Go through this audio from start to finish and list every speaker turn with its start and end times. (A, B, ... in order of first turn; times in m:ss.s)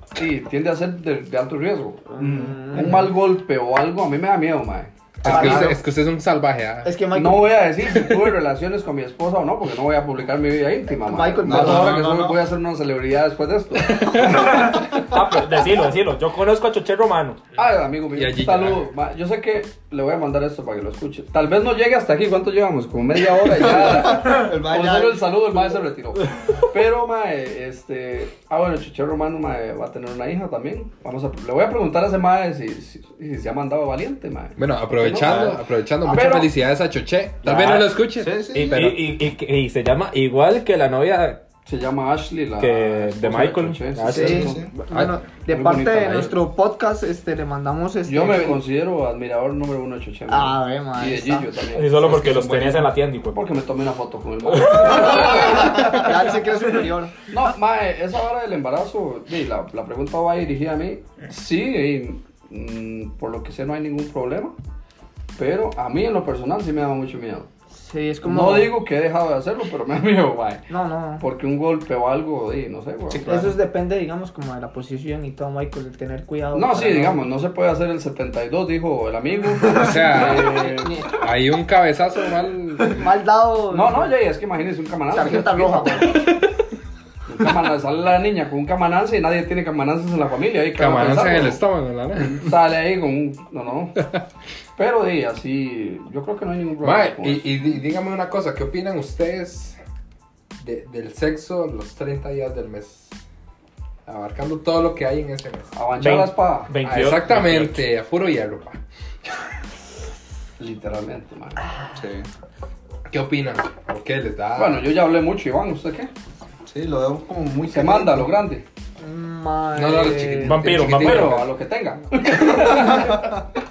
0:00.2-0:04.9 A
0:02.1-0:02.9 B
0:02.2-0:03.0 C
0:05.2-0:07.0 D
0:05.2-0:05.8 B
0:05.3-0:05.7 C
0:06.8-0:07.7 B
0:07.1-0:14.8 A
0:11.0-0:12.0 B
0:11.4-0:12.4 C
0:13.9-0:14.9 D
0:14.9-0:17.4 E
0:17.6-0:36.5 A
0:18.1-0:18.8 D
0:23.5-0:25.6 C
0:34.6-0:38.9 D
0:35.1-0:35.6 C
0:37.5-0:37.9 E
0:38.2-0:39.0 C
0:38.5-0:41.4 E
0:41.7-0:44.6 A
0:42.6-0:44.5 E
0:44.1-0:44.7 C
0:44.1-0:48.6 B
0:45.5-0:46.4 A
0:48.0-0:52.4 A
0:50.3-0:51.5 B
0:51.8-0:53.4 E
0:52.0-0:52.9 C
0:53.3-0:56.3 A
0:54.5-0:55.1 E
0:54.9-0:57.3 B
0:57.3-1:04.5 A
1:05.4-1:07.5 A
1:07.7-1:08.7 B
1:08.2-1:13.5 A
1:10.7-1:11.2 B
1:13.1-1:13.5 C
1:13.3-1:17.3 B
1:16.5-1:21.1 A
1:19.7-1:23.0 D
1:20.2-1:21.2 B
1:22.9-1:24.1 B
1:23.7-1:26.2 A
1:25.1-1:26.3 B
1:27.3-1:31.6 A
1:30.8-1:32.5 D
1:32.3-1:34.1 A
1:34.8-1:37.5 A
1:36.8-1:39.8 D
1:40.6-1:43.2 D
1:44.1-1:45.7 D
1:45.8-1:46.7 A
1:46.0-1:47.9 E
1:46.8-1:48.8 D
1:50.6-1:51.6 A
1:51.9-1:52.3 C
1:53.1-1:54.9 D
1:54.6-1:56.1 A
1:56.7-1:58.4 C
1:57.7-1:58.6 A
1:59.0-2:00.7 B
1:59.7-2:01.5 D
2:00.4-2:01.4 E
2:00.8-2:03.3 A
2:02.9-2:03.4 C